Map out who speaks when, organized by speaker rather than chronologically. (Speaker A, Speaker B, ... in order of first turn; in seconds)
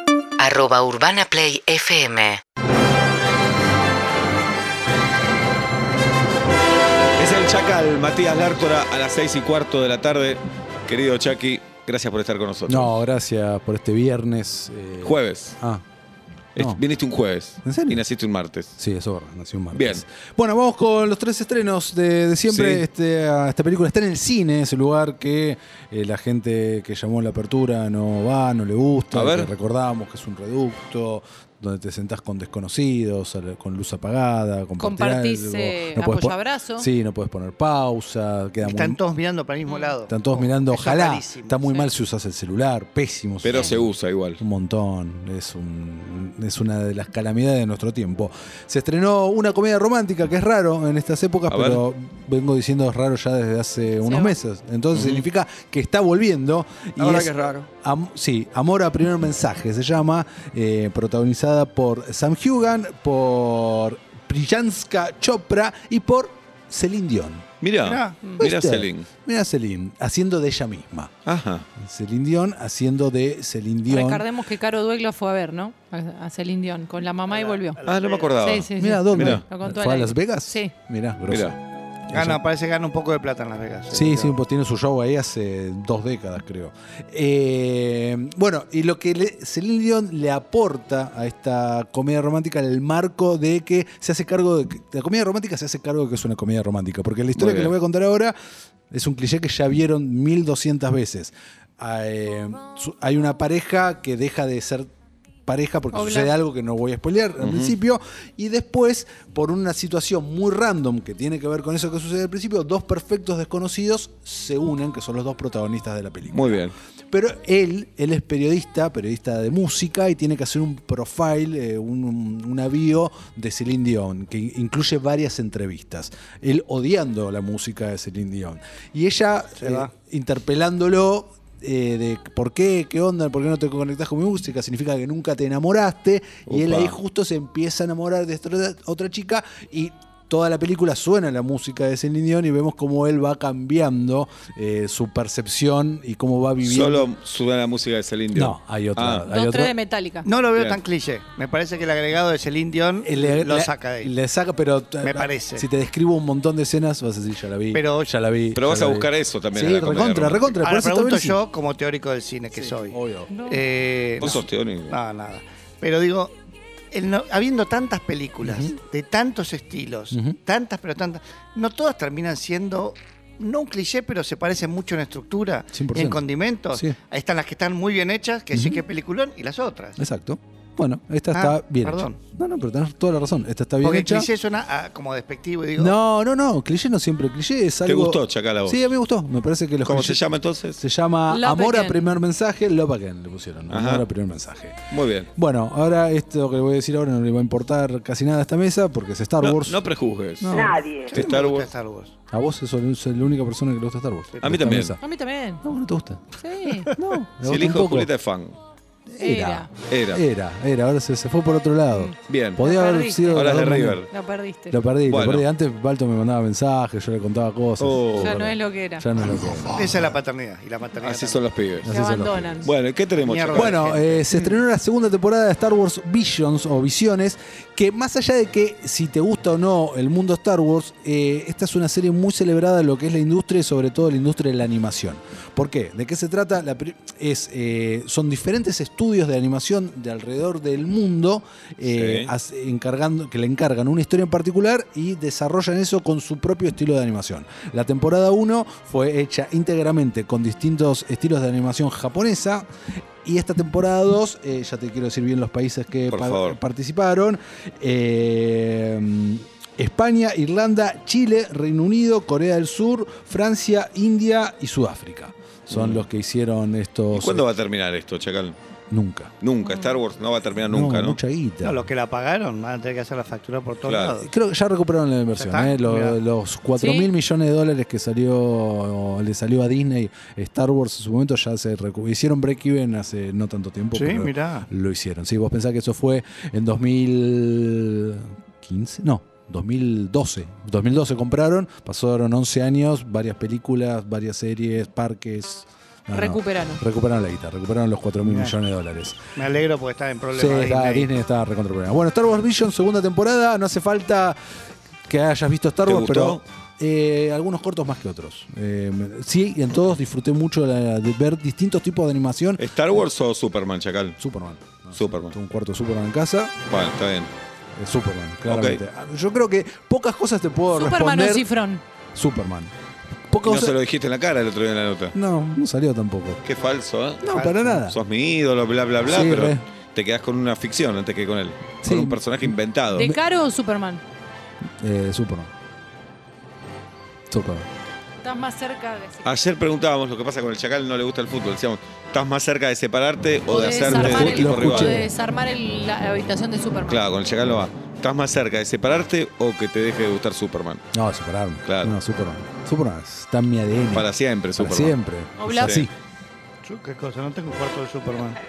Speaker A: 0.4-2.4
Speaker B: 7.2-13.0, 15.0-15.6, 16.6-18.8, 19.7-20.0, 22.5-22.9, 29.1-29.5, 43.4-44.4, 51.5-51.8, 54.9-55.2, 57.0-57.6, 67.6-69.1, 71.2-71.7, 77.9-79.5, 81.3-81.6, 97.4-97.8, 107.4-107.8, 116.3-116.7, 136.5-137.0, 146.6-149.3, 150.5-150.8, 158.6-160.6, 164.2-165.0, 187.8-188.9, 189.8-190.8, 193.7-194.1, 194.9-195.3, 199.4-201.7, 204.4-204.9, 207.4-208.6, 209.9-210.2, 212.3-212.6, 213.3-214.1, 215.1-215.5, 217.8-218.4, 221.0-221.9, 222.6-223.9, 241.8-242.3, 256.1-256.6, 265.7-266.1, 267.1-268.6, 269.4-271.2, 273.8-274.2, 305.8-306.4, 312.6-314.2, 314.9-315.4, 316.7-317.3, 318.4-318.8, 323.4-325.1, 326.4-327.4, 327.9-333.1, 339.2-345.1, 346.9-350.8, 351.6-352.0, 353.9-355.0, 355.5-355.9
Speaker C: 12.7-15.8, 16.6-16.8, 17.6-18.0, 18.8-39.0, 40.1-67.5, 68.4-71.1, 71.8-74.3, 78.8-81.6, 82.1-82.4, 83.9-98.3, 98.9-104.9, 105.5-147.1, 148.3-149.7, 153.0-161.4, 162.5-163.4, 168.4-168.7, 170.1-170.4, 175.7-177.0, 178.5-178.8, 180.0-184.3, 185.8-199.8, 200.4-201.3, 202.3-205.0, 205.6-206.2, 206.9-208.1, 209.1-214.1, 214.7-219.8, 221.8-222.7, 223.5-252.7, 253.2-267.5, 268.9-269.3, 270.7-271.9, 274.2-299.2, 300.3-304.4, 305.1-312.6, 314.2-316.5, 317.8-321.5, 322.1-322.7, 323.3-323.8, 325.1-326.4, 327.2-328.0, 329.1-329.6, 331.8-332.5, 334.8-335.5, 337.3-337.7, 343.8-345.1, 350.9-355.9
Speaker D: 34.8-36.9, 39.7-39.9, 54.0-54.4, 73.9-77.8, 78.4-80.7, 105.9-106.3, 149.3-150.3, 163.3-163.6, 191.3-192.0, 205.0-205.6, 206.4-206.9, 209.2-209.7, 211.9-213.5, 214.1-214.8, 218.2-219.1, 221.9-222.7, 269.6-270.0, 276.8-277.1, 296.1-296.8, 320.7-321.8, 332.9-334.0, 338.2-339.4, 343.5-347.1, 355.4-355.9
Speaker E: 38.6-41.7, 67.8-68.2, 77.3-78.5, 82.1-84.3, 129.6-129.9, 150.2-154.1, 155.0-155.7, 157.7-158.1, 160.6-166.3, 166.9-180.0, 181.3-182.2, 183.8-186.0, 200.8-202.1, 204.3-204.6, 219.4-221.4, 223.2-224.6, 271.6-274.3, 275.3-276.2, 283.9-284.7, 298.2-298.6, 299.4-301.1, 327.3-327.9, 356.6-358.4